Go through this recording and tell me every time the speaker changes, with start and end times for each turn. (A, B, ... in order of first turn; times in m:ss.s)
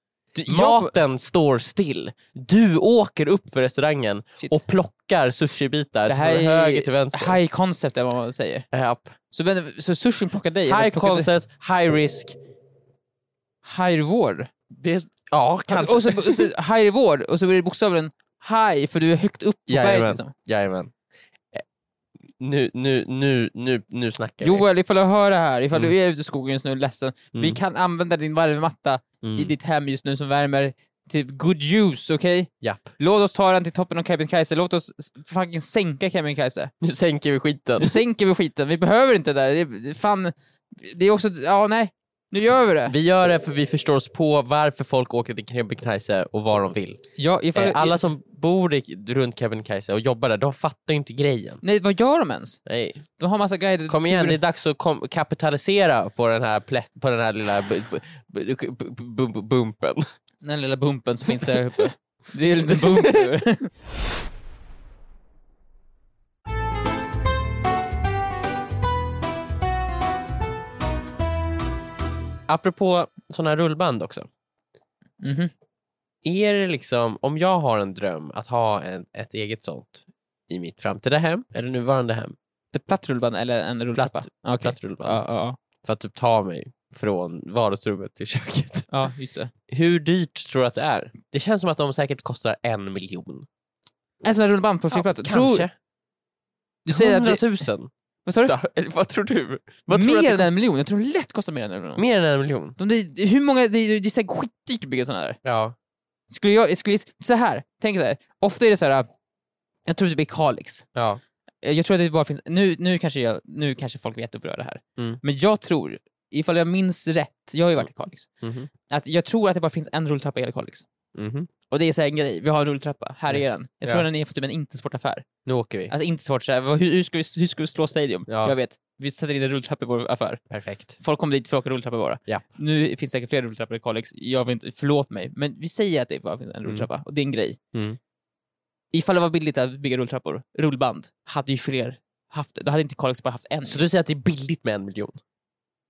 0:00.4-0:00.9 A
0:00.5-0:07.4 B
0:06.1-0:08.7 A
0:08.7-0:09.2 B
0:09.3-0:11.3 A
0:10.7-0:12.4 B
0:13.6-0:14.5 A
0:14.7-0:16.5 B
0:15.7-0:20.3 A
0:19.7-0:20.9 B
0:22.4-0:24.6 B
0:24.4-0:36.7 A
0:27.3-0:27.6 B
0:29.2-0:29.6 B
0:32.6-0:32.9 B
0:36.8-0:38.0 B
0:37.8-0:43.0 A
0:42.9-0:47.0 B
0:47.2-0:48.0 A
0:47.6-0:51.6 B
0:51.6-0:52.6 A
0:52.7-0:53.0 B
0:53.2-0:54.4 A
0:53.9-1:00.1 B
1:00.4-1:03.7 A
1:02.8-1:03.3 B
1:12.5-1:14.3 B
1:15.2-1:15.5 A
1:16.2-1:22.4 B
1:22.7-1:25.6 A
1:24.0-1:25.2 B
1:25.8-1:28.9 B
1:28.9-1:29.5 A
1:29.7-1:33.5 B
1:34.2-1:35.7 A
1:34.9-1:35.7 B
1:36.9-1:37.4 A
1:36.9-1:37.9 B
1:38.3-1:38.5 A
1:38.4-1:40.5 B
1:39.9-1:42.0 A
1:42.0-1:42.8 B
1:42.8-1:45.4 A
1:45.4-1:45.8 B
1:46.3-1:49.1 A
1:49.9-1:50.9 A
1:51.0-1:51.2 B
1:51.6-1:58.3 A
1:58.4-1:58.7 B
1:58.9-2:00.9 A
2:01.2-2:01.5 B
2:01.7-2:05.3 A
2:03.3-2:04.1 B
2:05.4-2:05.9 B
2:05.9-2:10.4 A
2:08.3-2:08.6 B
2:10.5-2:11.0 B
2:11.0-2:17.6 A
2:18.9-2:23.8 A
2:23.6-2:25.2 B